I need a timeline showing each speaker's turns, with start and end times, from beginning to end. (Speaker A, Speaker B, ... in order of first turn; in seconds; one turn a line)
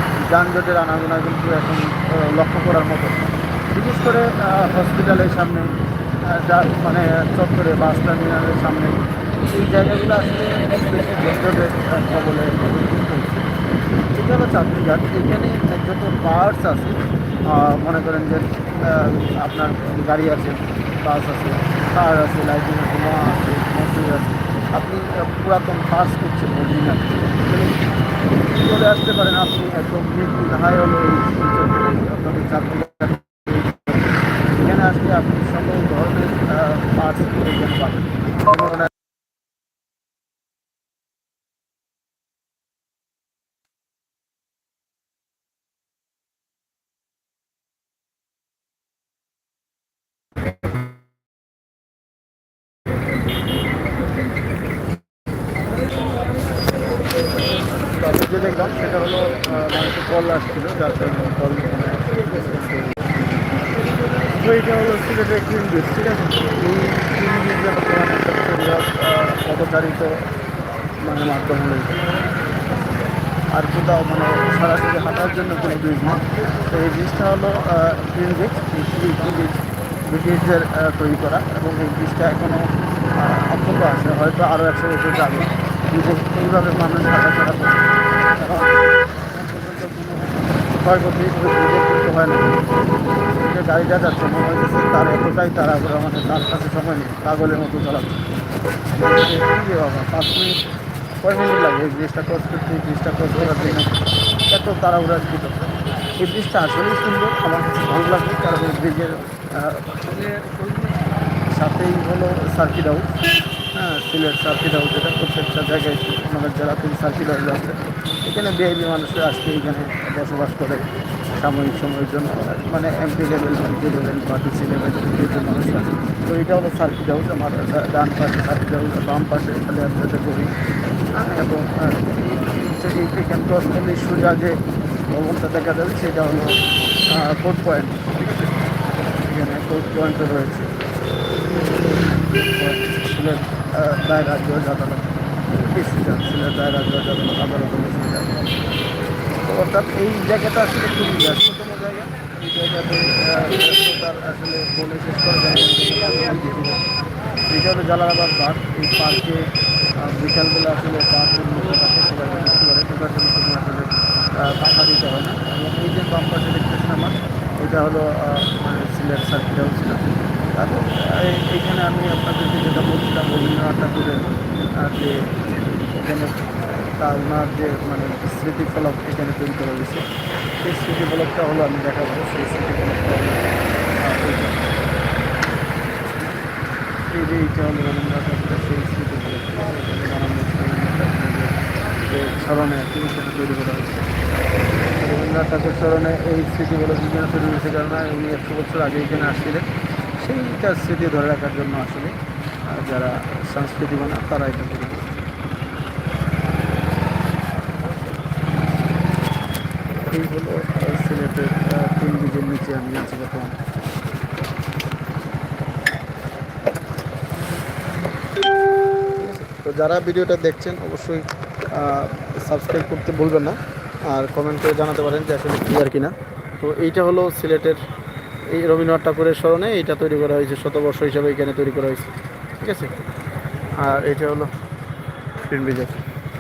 Speaker A: 0.2-5.7
Speaker A: 6.3-8.9
Speaker A: 9.5-13.5
Speaker A: 14.1-27.8
Speaker A: 28.5-38.9
Speaker A: 57.6-63.1
Speaker A: 64.3-70.2
Speaker A: 71.0-72.0
Speaker A: 73.5-82.6
Speaker A: 83.2-88.7
Speaker A: 89.3-92.6
Speaker A: 93.3-98.2
Speaker A: 99.0-100.6
Speaker A: 101.2-103.9
Speaker A: 104.5-113.1
Speaker A: 113.8-130.5
Speaker A: 131.2-136.5
Speaker A: 137.1-138.6
Speaker A: 139.1-140.7
Speaker A: 141.5-148.6
Speaker A: 149.4-156.8
Speaker A: 157.5-159.5
Speaker A: 160.0-170.0
Speaker A: 170.6-175.2
Speaker A: 175.8-180.0
Speaker A: 180.6-183.4
Speaker A: 184.0-184.8
Speaker A: 187.1-194.1
Speaker A: 194.9-199.7
Speaker A: 200.2-202.2
Speaker A: 202.7-205.1
Speaker A: 210.1-213.6
Speaker A: 219.2-223.6
Speaker A: 224.1-227.8
Speaker A: 228.5-232.9
Speaker A: 233.8-234.5
Speaker A: 235.5-236.0